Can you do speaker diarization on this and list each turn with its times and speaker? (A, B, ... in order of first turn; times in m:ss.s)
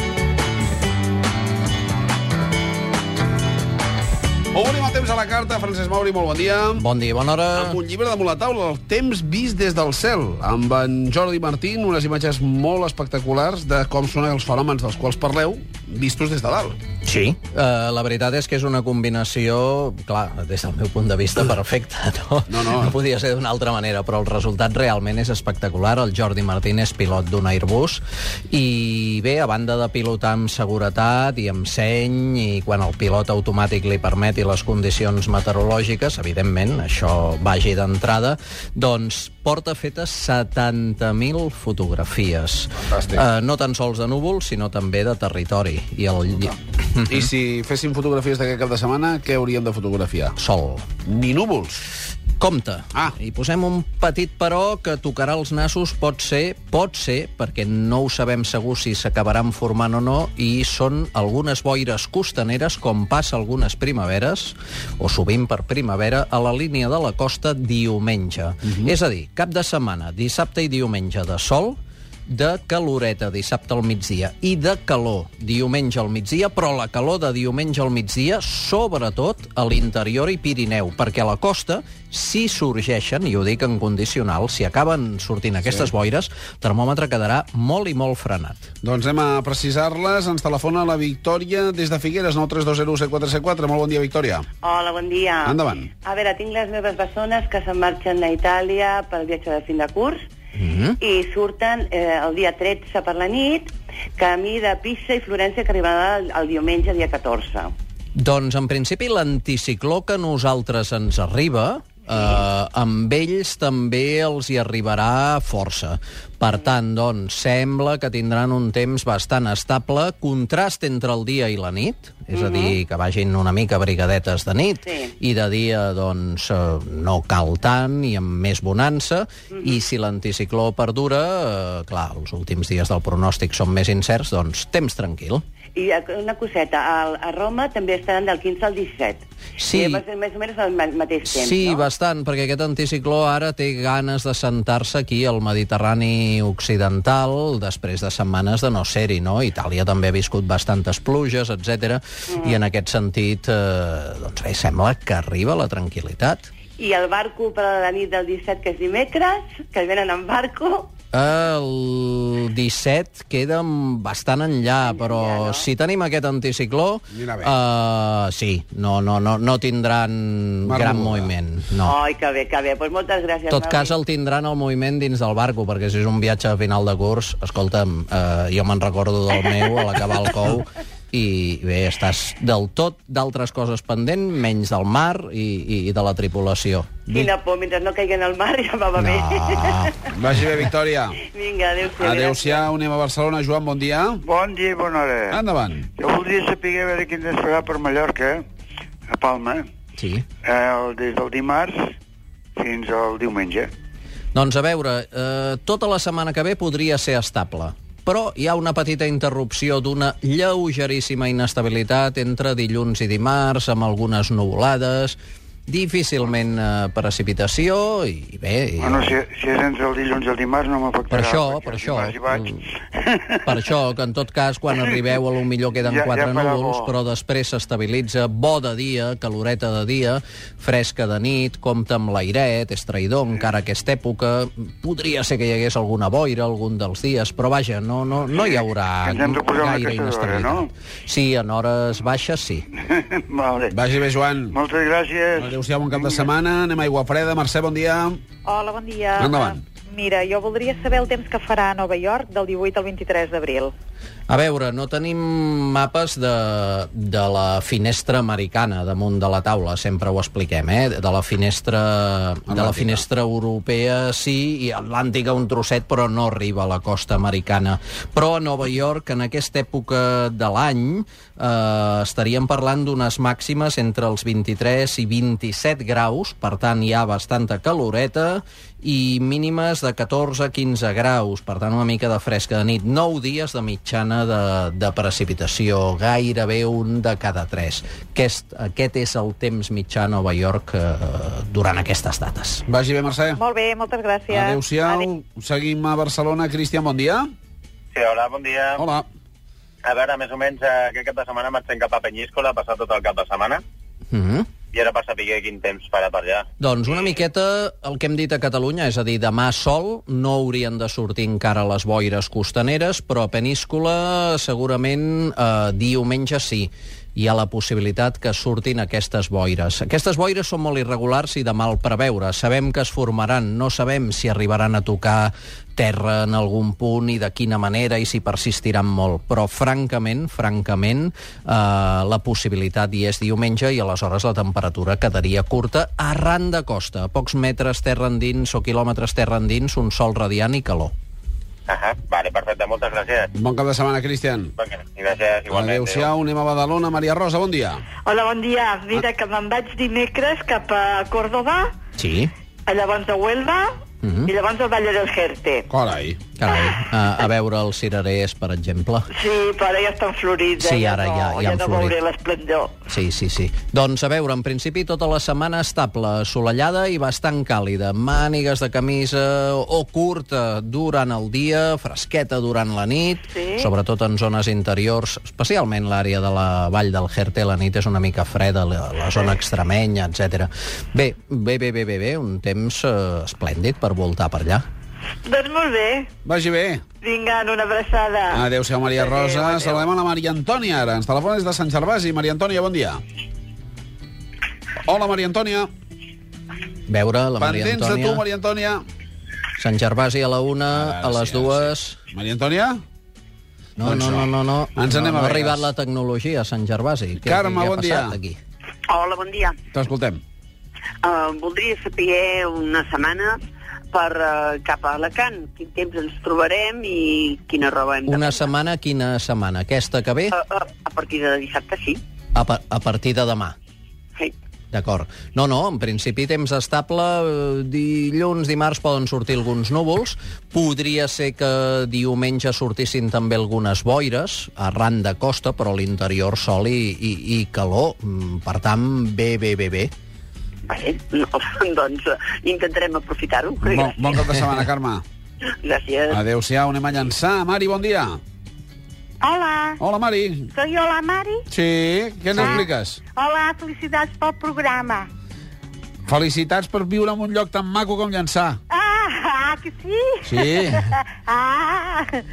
0:04.5-0:06.8 A
0:06.8-0:07.8 B
0:07.6-0:16.8 A
0:17.0-0:46.6 B
0:22.5-0:22.9 A
0:42.9-0:43.2 A
0:47.1-0:50.4 A
0:50.4-0:50.9 B
0:51.1-0:51.8 A
0:52.4-1:11.8 B
1:12.3-1:28.7 B
1:28.8-1:34.5 A
1:34.6-1:40.3 C
1:35.4-1:35.9 A
1:40.6-1:41.0 B
1:41.0-1:47.7 C
1:48.2-2:15.4 B
2:02.3-2:02.8 C
2:15.8-2:21.8 C
2:19.6-2:20.0 B
2:21.2-2:36.5 B
2:36.8-2:40.9 C
2:41.1-2:52.0 B
2:44.8-2:45.6 C
2:47.1-2:47.6 A
2:50.7-2:51.3 A
2:51.8-2:53.9 C
2:53.5-3:07.0 B
3:07.1-3:10.0 C
3:09.0-3:10.0 B
3:10.1-3:11.2 A
3:11.2-3:12.7 C
3:12.0-3:14.2 A
3:14.2-3:18.4 D
3:15.3-3:15.9 A
3:19.1-3:19.6 D
3:20.0-3:20.2 B
3:20.4-3:21.9 D
3:22.6-3:23.7 D
3:24.3-3:39.2 B
3:38.8-3:43.2 D
3:41.1-3:42.6 B
3:43.5-4:02.7 B
3:45.8-3:46.9 D
3:58.4-4:00.7 D
4:02.9-4:03.8 D
4:03.7-4:04.6 A
4:04.5-4:06.3 D
4:05.4-4:08.2 A
4:08.5-4:09.3 E
4:09.2-4:09.6 A
4:09.9-4:13.7 E
4:14.3-4:52.6 B
4:22.5-4:23.0 A
4:52.7-4:53.4 A
4:53.4-4:54.6 E
4:54.3-4:57.3 A
4:57.9-4:58.8 F
4:58.8-4:59.1 A
4:59.8-5:03.6 F
5:04.1-5:04.5 B
5:04.7-5:06.4 F
5:06.6-5:40.9 B
5:41.7-5:43.3 F
5:43.4-5:44.5 A
5:44.6-5:46.1 F
5:45.5-5:47.8 A
5:48.0-5:51.7 G
5:52.0-5:52.3 B
5:52.7-5:53.7 G
5:54.0-5:54.3 B
5:54.3-5:55.6 G
5:55.7-5:56.2 A
5:56.4-5:59.1 B
5:59.1-6:02.8 G
6:00.6-6:02.0 B
6:02.9-6:24.6 B
6:25.3-6:26.1 G
6:26.2-6:26.8 A
6:27.0-6:28.5 G
6:28.3-6:33.0 A
6:29.4-6:29.7 G
6:34.8-6:35.7 A
6:36.9-6:38.2 B
6:37.4-6:38.8 A
6:39.6-6:42.0 B
6:40.7-6:42.8 A
6:43.8-6:48.4 B
6:43.8-6:45.7 A
6:47.2-6:48.2 A
6:48.9-6:49.6 H
6:49.7-6:50.2 A
6:51.0-6:53.4 H
6:53.9-6:58.4 H
6:58.1-7:00.4 B
7:00.3-7:02.0 H
7:02.4-7:03.6 B
7:04.7-7:19.9 B
7:20.7-7:24.4 H
7:23.6-7:25.0 A
7:25.6-7:26.2 H
7:26.1-7:28.2 A
7:29.2-7:29.8 I
7:29.8-7:30.5 A
7:30.5-7:31.4 I
7:31.5-7:33.0 A
7:32.3-7:35.1 I
7:36.1-7:38.6 A
7:38.7-7:42.2 I
7:40.3-7:40.8 A